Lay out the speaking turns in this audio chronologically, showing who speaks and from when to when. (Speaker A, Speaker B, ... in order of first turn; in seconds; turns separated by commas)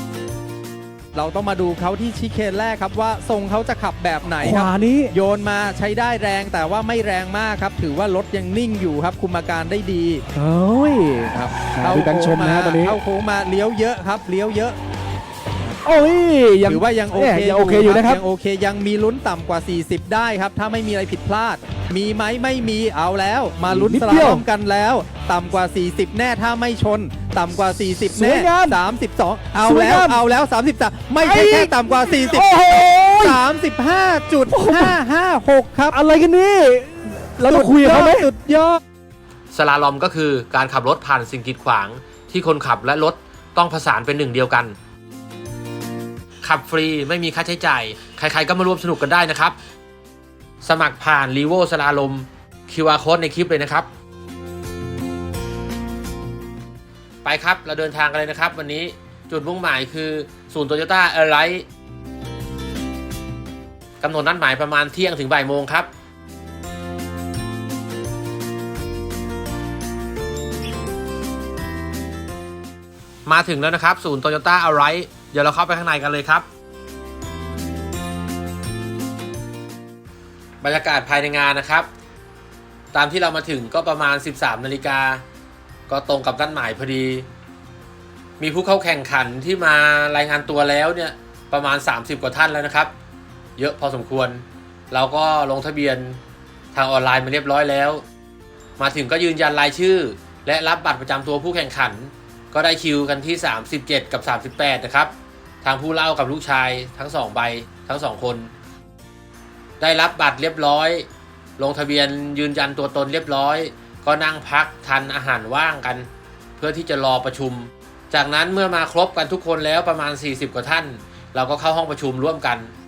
Speaker A: 1.1-10.2, Speaker B: 4.4-5.1, Speaker B: 10.3-13.0, Speaker A: 11.3-14.8, Speaker B: 15.8-18.2, Speaker A: 16.6-32.5, Speaker B: 23.7-24.4, Speaker B: 28.1-28.8, Speaker B: 29.6-30.2, Speaker B: 31.2-33.4, Speaker A: 33.2-36.0, Speaker B: 34.5-35.0, Speaker B: 35.9-38.3, Speaker A: 37.4-38.8, Speaker C: 39.5-44.8, Speaker C: 46.4-49.5, Speaker C: 50.6-53.9, Speaker C: 57.2-61.6, Speaker C: 64.0-65.9, Speaker C: 73.2-76.5, Speaker C: 80.6-81.9, Speaker C: 82.9-85.2, Speaker C: 85.9-87.3, Speaker C: 88.4-92.9, Speaker C: 93.6-96.2, Speaker C: 96.7-98.0, Speaker C: 98.8-105.1, Speaker C: 105.6-108.5, Speaker C: 109.8-111.0, Speaker C: 111.6-116.1, Speaker C: 116.6-122.7